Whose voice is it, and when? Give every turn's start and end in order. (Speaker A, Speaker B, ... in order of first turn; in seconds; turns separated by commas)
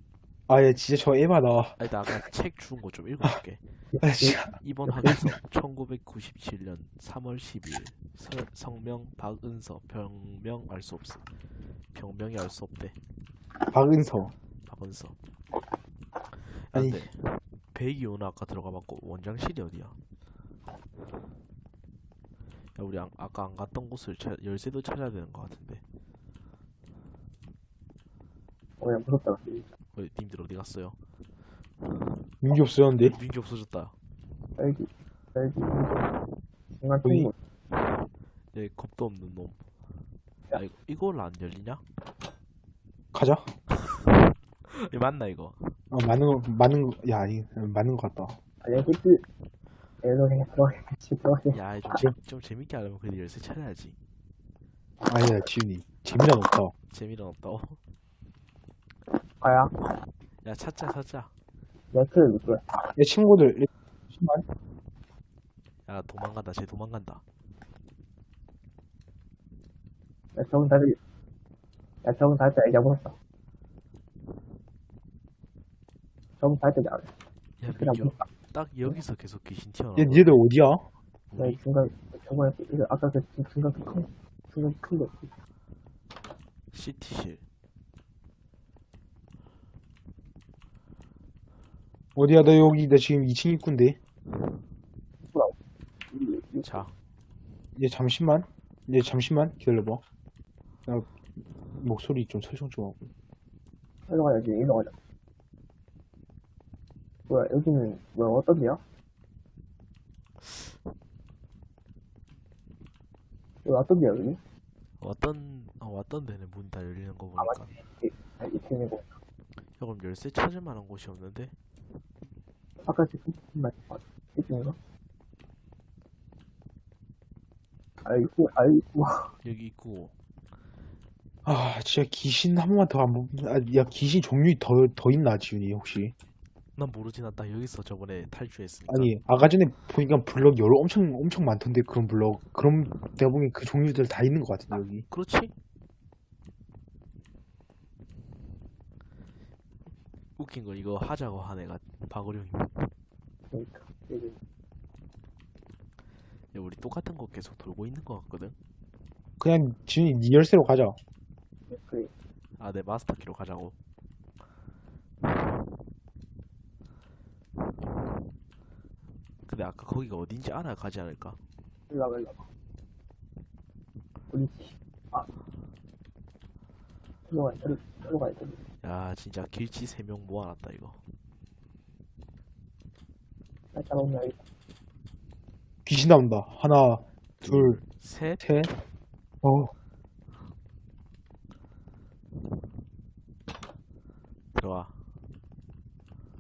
Speaker A: 0.5-2.2, Speaker B: 1.8-3.6, Speaker C: 3.9-4.4, Speaker A: 4.0-5.3, Speaker B: 4.4-11.2, Speaker B: 11.9-12.9, Speaker A: 13.6-14.3, Speaker B: 14.7-15.1, Speaker B: 16.4-19.9, Speaker A: 16.7-17.1, Speaker B: 22.8-25.8, Speaker C: 28.8-29.7, Speaker B: 30.0-31.0, Speaker A: 32.4-33.2, Speaker B: 33.0-33.9, Speaker C: 34.6-36.1, Speaker C: 36.7-37.4, Speaker A: 37.0-37.3, Speaker B: 38.5-39.6, Speaker B: 40.5-41.8, Speaker A: 43.1-43.5, Speaker B: 43.7-45.8, Speaker A: 45.9-48.4, Speaker C: 48.6-49.2, Speaker C: 50.0-51.6, Speaker B: 51.5-54.0, Speaker A: 55.1-56.7, Speaker B: 56.9-57.8, Speaker C: 59.4-59.8, Speaker B: 60.4-61.3, Speaker C: 61.9-62.6, Speaker A: 63.0-64.4, Speaker B: 65.9-67.2, Speaker C: 70.3-71.0, Speaker C: 72.0-73.2, Speaker C: 76.4-77.1, Speaker B: 77.6-80.4, Speaker C: 77.8-78.3, Speaker A: 80.0-80.8, Speaker B: 81.3-81.6, Speaker C: 81.3-85.3, Speaker B: 86.7-87.4, Speaker A: 92.2-94.0, Speaker C: 95.2-96.8, Speaker B: 96.7-96.9, Speaker A: 97.8-100.0, Speaker A: 101.7-103.1, Speaker C: 104.1-105.0, Speaker C: 107.3-108.8, Speaker C: 113.6-114.4, Speaker B: 115.0-117.7, Speaker C: 117.4-119.2, Speaker B: 119.8-121.5, Speaker C: 122.8-124.8, Speaker C: 128.0-129.3, Speaker B: 129.4-130.1, Speaker A: 131.4-136.1, Speaker B: 136.8-139.1, Speaker A: 138.9-145.1, Speaker B: 145.1-145.5, Speaker B: 150.4-152.9, Speaker C: 153.5-154.4, Speaker B: 156.5-158.6, Speaker A: 159.4-161.0, Speaker C: 161.7-162.1, Speaker B: 162.6-163.7, Speaker B: 169.5-171.4, Speaker C: 171.9-172.4, Speaker C: 174.3-175.3, Speaker C: 177.3-178.6, Speaker B: 178.8-181.0, Speaker C: 183.7-184.4, Speaker A: 185.9-187.8, Speaker B: 187.4-188.4, Speaker A: 188.4-188.7, Speaker A: 189.4-189.7, Speaker B: 194.5-194.9